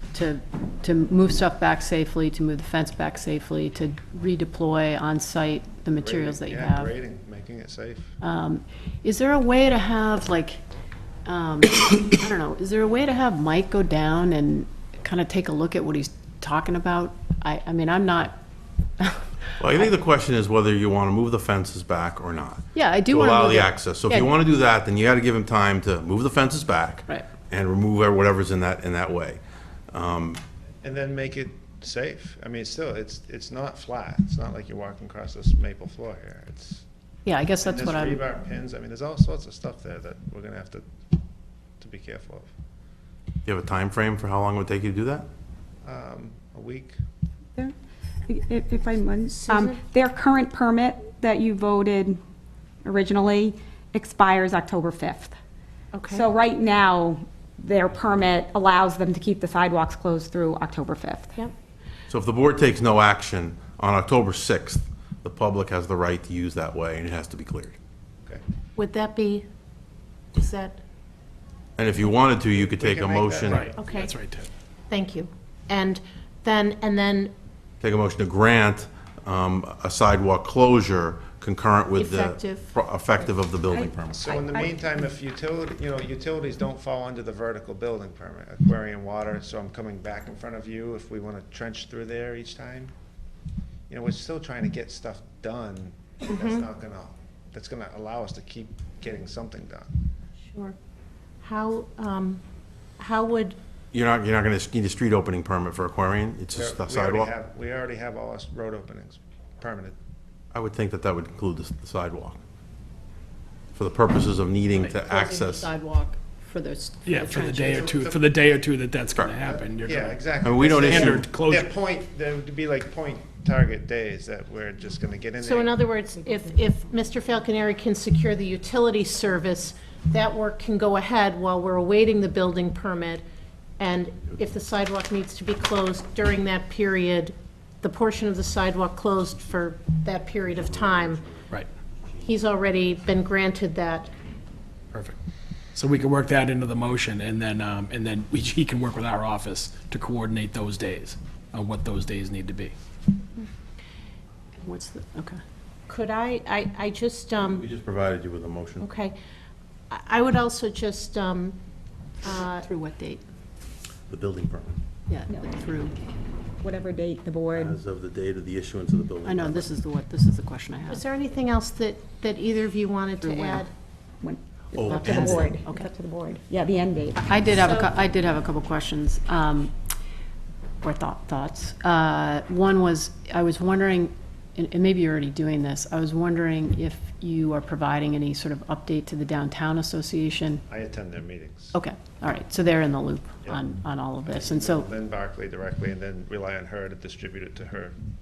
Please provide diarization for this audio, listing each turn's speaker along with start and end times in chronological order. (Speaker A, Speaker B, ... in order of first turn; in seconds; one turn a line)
Speaker A: 0.1-6.9
Speaker B: 6.0-8.2
Speaker A: 8.2-10.6
Speaker A: 11.3-18.4
Speaker A: 19.0-19.3
Speaker C: 19.6-30.4
Speaker A: 22.7-24.3
Speaker B: 30.8-36.8
Speaker A: 37.2-38.2
Speaker B: 37.6-40.9
Speaker B: 41.8-42.5
Speaker C: 43.5-45.3
Speaker B: 45.8-47.0
Speaker D: 48.3-52.2
Speaker E: 49.4-49.8
Speaker D: 52.8-55.4
Speaker E: 55.9-56.2
Speaker D: 56.1-61.4
Speaker C: 62.1-67.8
Speaker E: 68.8-69.5
Speaker E: 70.3-70.8
Speaker C: 71.8-73.7
Speaker B: 72.5-74.1
Speaker F: 73.5-74.5
Speaker E: 73.8-74.1
Speaker E: 74.9-77.3
Speaker C: 77.8-84.2
Speaker E: 81.9-82.8
Speaker D: 83.7-84.9
Speaker B: 84.1-92.9
Speaker B: 93.9-99.9
Speaker E: 96.3-96.6
Speaker E: 100.5-100.8
Speaker E: 101.4-102.4
Speaker E: 103.0-103.6
Speaker C: 103.9-107.3
Speaker B: 106.5-110.0
Speaker C: 110.5-112.4
Speaker C: 113.8-115.7
Speaker A: 114.7-118.0
Speaker F: 117.0-120.3
Speaker B: 117.3-118.6
Speaker B: 119.4-125.8
Speaker C: 120.4-121.3
Speaker F: 120.9-121.7
Speaker E: 125.4-133.2
Speaker E: 133.8-141.4
Speaker E: 142.2-144.1
Speaker F: 145.8-152.7
Speaker A: 154.6-155.4
Speaker E: 155.9-157.6
Speaker C: 157.4-158.9
Speaker E: 158.8-159.2
Speaker E: 159.9-161.6
Speaker E: 162.2-162.7
Speaker A: 162.6-163.2
Speaker C: 164.1-164.8
Speaker A: 165.1-166.0
Speaker D: 166.6-167.8
Speaker C: 167.5-169.7
Speaker A: 169.2-171.0
Speaker E: 170.9-173.7
Speaker A: 173.2-173.6
Speaker D: 174.2-177.2
Speaker C: 174.7-175.5
Speaker A: 174.9-175.9
Speaker A: 177.2-179.7
Speaker A: 180.8-190.6
Speaker B: 190.7-191.8
Speaker A: 191.7-194.9
Speaker B: 194.2-197.9